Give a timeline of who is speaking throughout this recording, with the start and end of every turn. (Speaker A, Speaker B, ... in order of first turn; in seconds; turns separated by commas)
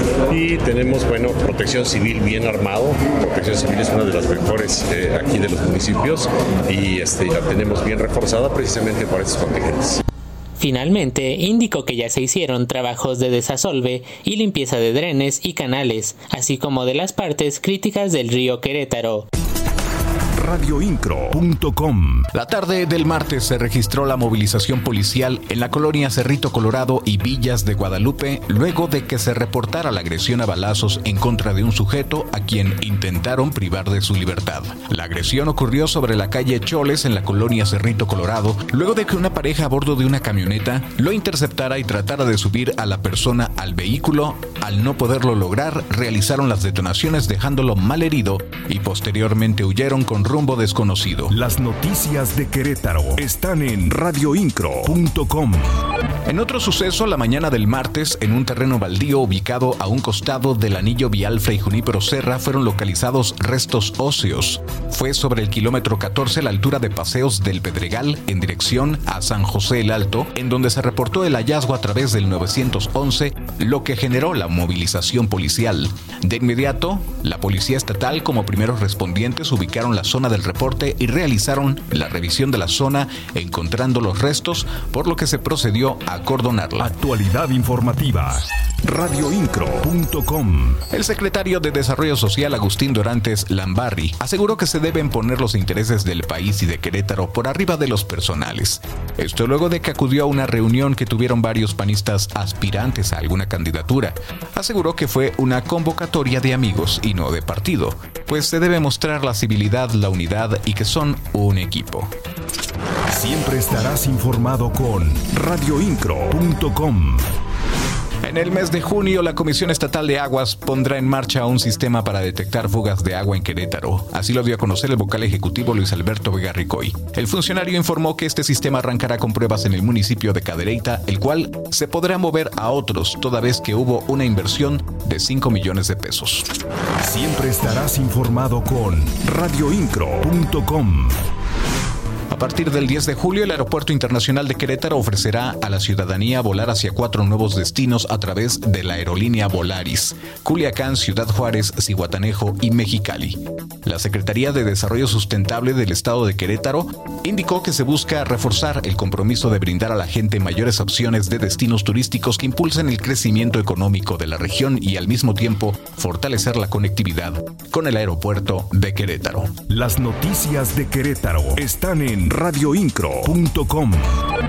Speaker A: 0.3-10.0, Speaker B: 10.6-19.3, Speaker C: 20.3-22.3, Speaker D: 22.3-51.3, Speaker C: 51.3-55.8, Speaker D: 56.3-86.9, Speaker C: 86.8-90.8, Speaker D: 90.9-112.1, Speaker C: 113.1-117.3, Speaker D: 118.2-136.5, Speaker C: 137.0-141.2, Speaker D: 142.3-169.5, Speaker C: 169.7-174.2